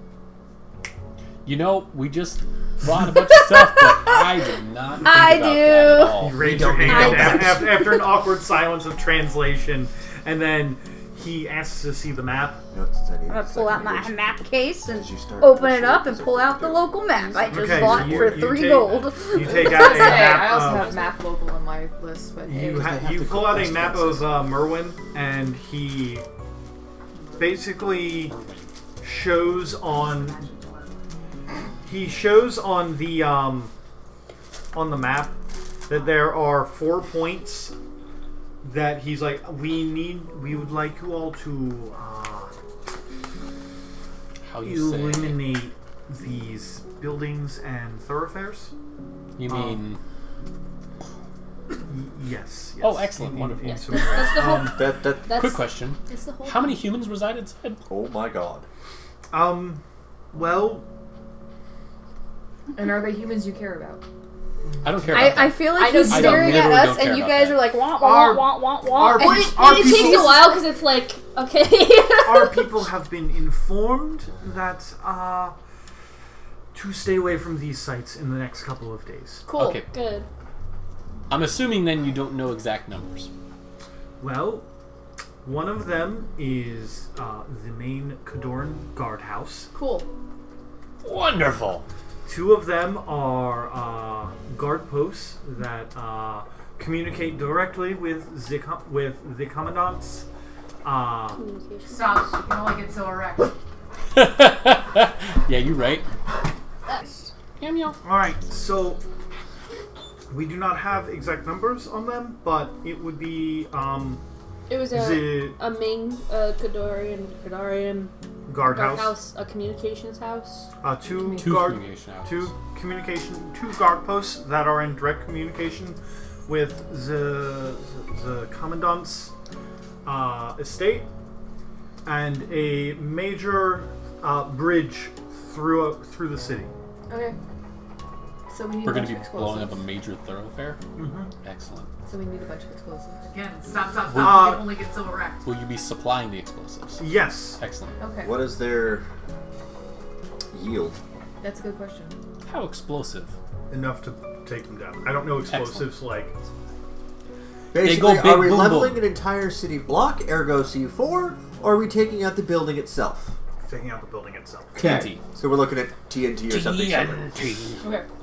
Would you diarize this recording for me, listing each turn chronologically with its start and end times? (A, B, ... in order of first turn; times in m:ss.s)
0:01.4-0:07.3 A
0:03.4-0:04.2 B
0:05.0-0:06.3 B
0:06.2-0:12.6 C
0:06.4-0:07.6 D
0:06.8-0:08.2 B
0:12.7-0:14.3 D
0:13.3-0:19.5 B
0:14.9-0:17.0 D
0:17.2-0:17.8 E
0:17.5-0:21.0 C
0:17.9-0:18.4 D
0:19.3-0:21.2 E
0:19.5-0:23.0 F
0:22.4-0:26.2 C
0:22.6-0:24.6 D
0:27.2-0:27.8 G
0:27.4-0:28.4 C
0:28.3-0:28.7 A
0:29.0-0:30.4 C
0:29.4-0:31.0 G
0:31.8-0:33.7 C
0:34.7-0:37.7 C
0:38.6-0:42.5 C
0:44.5-0:45.6 A
0:44.6-0:48.7 C
0:49.4-0:50.0 A
0:49.4-0:49.8 C
0:51.8-0:54.8 C
0:52.8-0:54.4 A
0:53.8-0:56.8 E
0:54.5-0:55.4 D
0:55.3-0:57.8 A
0:57.9-0:58.7 D
0:59.3-0:59.8 C
1:00.3-1:00.9 C
1:02.8-1:04.0 F
1:04.8-1:07.8 A
1:05.1-1:10.6 B
1:05.8-1:06.7 E
1:07.9-1:10.5 C
1:09.0-1:12.8 E
1:12.2-1:15.6 C
1:16.7-1:19.5 C
1:19.5-1:19.8 F
1:19.5-1:19.9 A
1:19.9-1:20.3 E
1:21.3-1:23.3 A
1:24.2-1:24.6 C
1:25.4-1:29.7 C
1:29.7-1:30.1 F
1:31.0-1:31.9 A
1:32.3-1:40.3 C
1:40.8-1:41.4 C
1:41.3-1:42.3 E
1:41.9-1:43.5 G
1:44.2-1:46.1 A
1:47.6-1:48.0 A
1:48.0-1:49.0 C
1:50.3-1:54.2 C
1:54.7-2:00.7 E
1:54.8-1:55.6 C
1:58.5-1:59.2 C
2:00.8-2:09.3 C
2:01.2-2:01.5 F
2:01.4-2:02.5 A
2:10.0-2:11.1 C
2:12.0-2:16.7 C
2:17.1-2:17.4 F
2:18.5-2:19.8 F
2:18.8-2:20.8 A
2:21.0-2:21.3 C
2:21.4-2:21.9 A
2:22.0-2:23.3 F
2:23.3-2:25.5 G
2:24.1-2:24.6 A
2:24.1-2:24.7 C
2:25.4-2:28.0 A
2:27.0-2:27.6 C
2:28.0-2:28.4 F
2:28.2-2:29.1 D
2:30.5-2:31.0 D
2:31.4-2:32.2 F
2:32.5-2:33.3 A
2:33.7-2:36.4 C
2:35.5-2:36.0 A
2:37.7-2:43.4 D
2:37.8-2:39.1 A
2:43.6-2:44.9 C
2:44.8-2:45.2 A
2:44.8-2:47.4 D
2:46.5-2:47.8 A